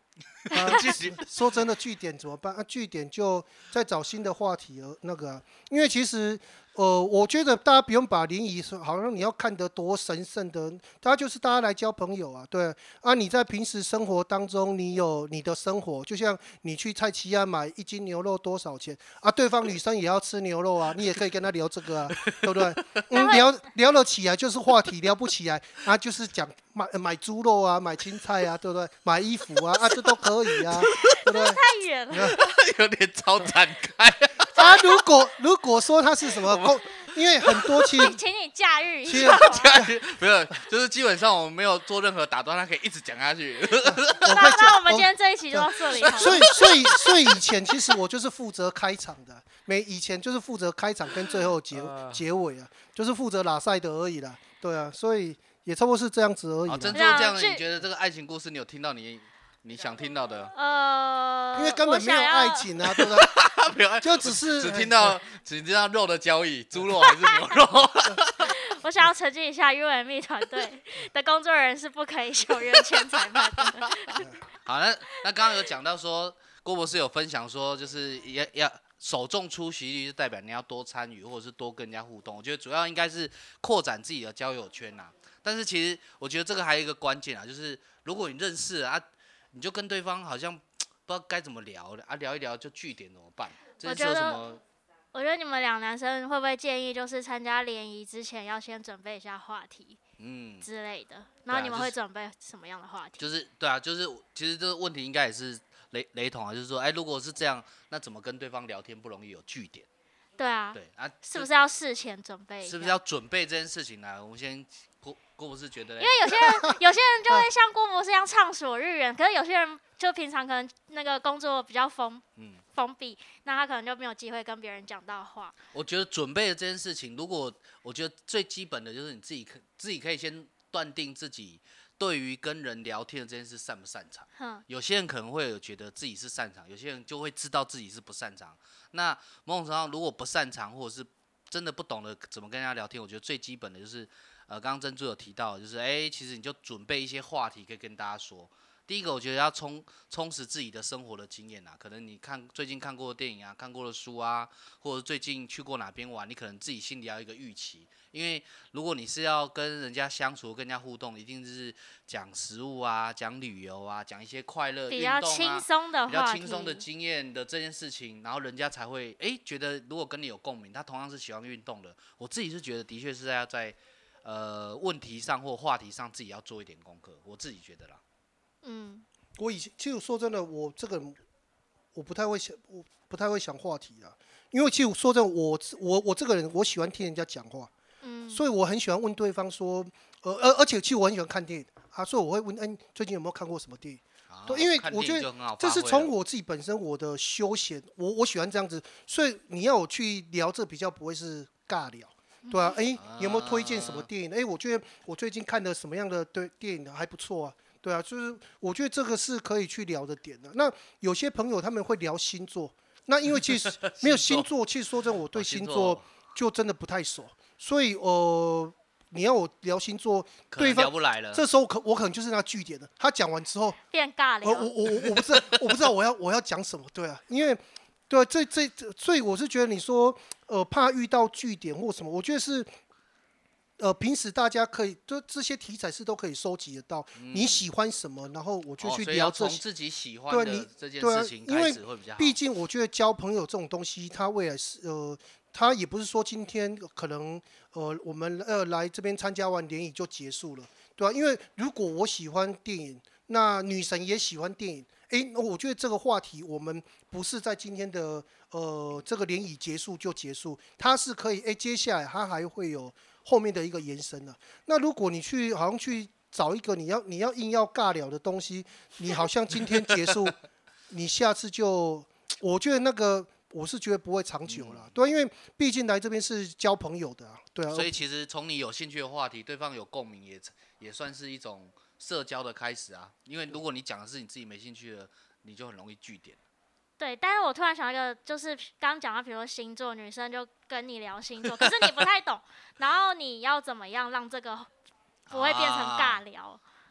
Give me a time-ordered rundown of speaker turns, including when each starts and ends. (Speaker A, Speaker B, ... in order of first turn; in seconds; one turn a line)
Speaker A: 0.5-1.3
Speaker B: 0.5-32.4
Speaker A: 22.1-23.2
Speaker C: 23.1-23.5
Speaker A: 30.5-31.2
Speaker C: 31.0-32.4
Speaker A: 32.1-34.6
Speaker B: 34.5-38.2
Speaker C: 34.5-35.0
Speaker A: 36.4-38.0
Speaker C: 37.9-39.7
Speaker B: 39.0-39.9
Speaker A: 39.1-44.5
Speaker B: 43.8-57.3
Speaker C: 44.2-47.0
Speaker A: 46.0-47.4
Speaker A: 51.7-52.2
Speaker A: 56.6-60.5
Speaker C: 56.9-57.6
Speaker C: 60.5-62.7
Speaker B: 61.5-63.4
Speaker A: 62.8-68.5
Speaker B: 64.0-65.2
Speaker C: 67.0-67.4
Speaker C: 68.4-74.2
Speaker A: 72.7-89.0
Speaker A: 89.5-94.6
Speaker C: 93.8-94.4
Speaker C: 95.1-100.0
Speaker A: 100.2-100.7
Speaker C: 100.6-103.3
Speaker A: 101.5-101.9
Speaker A: 103.2-109.8
Speaker C: 110.4-113.0
Speaker A: 110.7-111.5
Speaker A: 112.6-116.4
Speaker C: 116.0-122.2
Speaker A: 122.4-122.6
Speaker C: 122.7-125.5
Speaker A: 125.7-178.0
Speaker C: 134.4-134.6
Speaker C: 164.9-166.8
Speaker C: 178.6-179.0
Speaker B: 179.4-181.2
Speaker B: 181.9-187.7
Speaker C: 188.0-188.4
Speaker B: 188.3-223.8
Speaker A: 194.3-196.1
Speaker C: 202.4-202.8
Speaker A: 202.9-204.1
Speaker A: 213.5-214.5
Speaker A: 215.3-216.0
Speaker A: 220.5-221.4
Speaker C: 223.9-224.7
Speaker B: 224.4-232.7
Speaker A: 225.0-225.6
Speaker B: 233.8-239.6
Speaker A: 237.2-237.6
Speaker A: 238.8-242.4
Speaker B: 240.3-270.4
Speaker B: 270.9-277.9
Speaker A: 274.5-274.9
Speaker A: 277.7-286.4
Speaker C: 287.0-294.7
Speaker A: 291.6-291.9
Speaker A: 295.3-296.2
Speaker C: 295.3-296.6